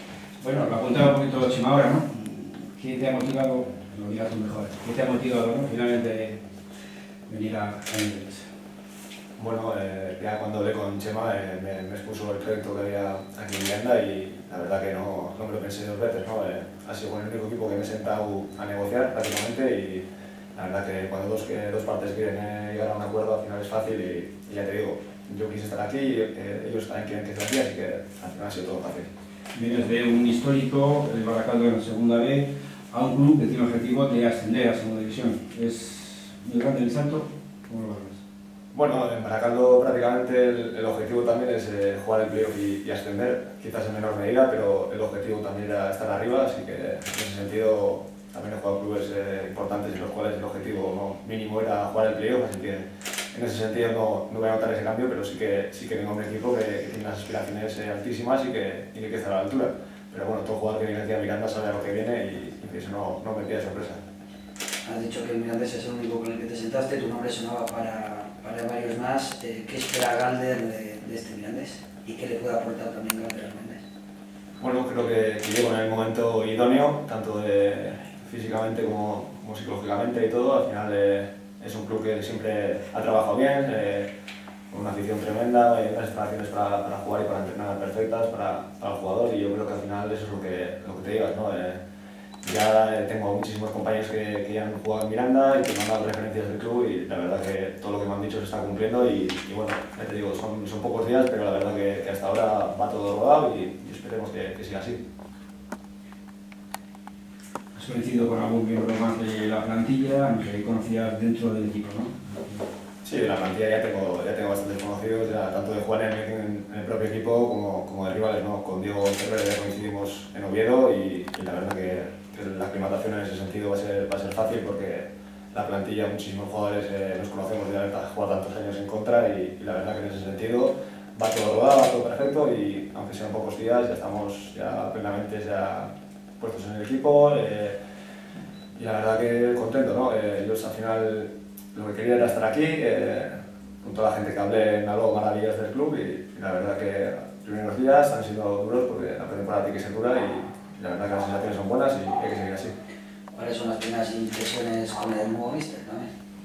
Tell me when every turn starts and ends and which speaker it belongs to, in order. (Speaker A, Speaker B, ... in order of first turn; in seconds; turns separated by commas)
Speaker A: 0.4-6.4, Speaker A: 7.3-8.5, Speaker B: 9.4-29.1, Speaker A: 29.5-38.2, Speaker B: 38.7-64.0, Speaker C: 64.8-73.8, Speaker B: 74.6-84.1, Speaker B: 84.7-91.8, Speaker B: 92.4-105.0, Speaker A: 107.8-112.6, Speaker B: 113.0-137.8, Speaker B: 138.8-152.7, Speaker C: 153.3-156.1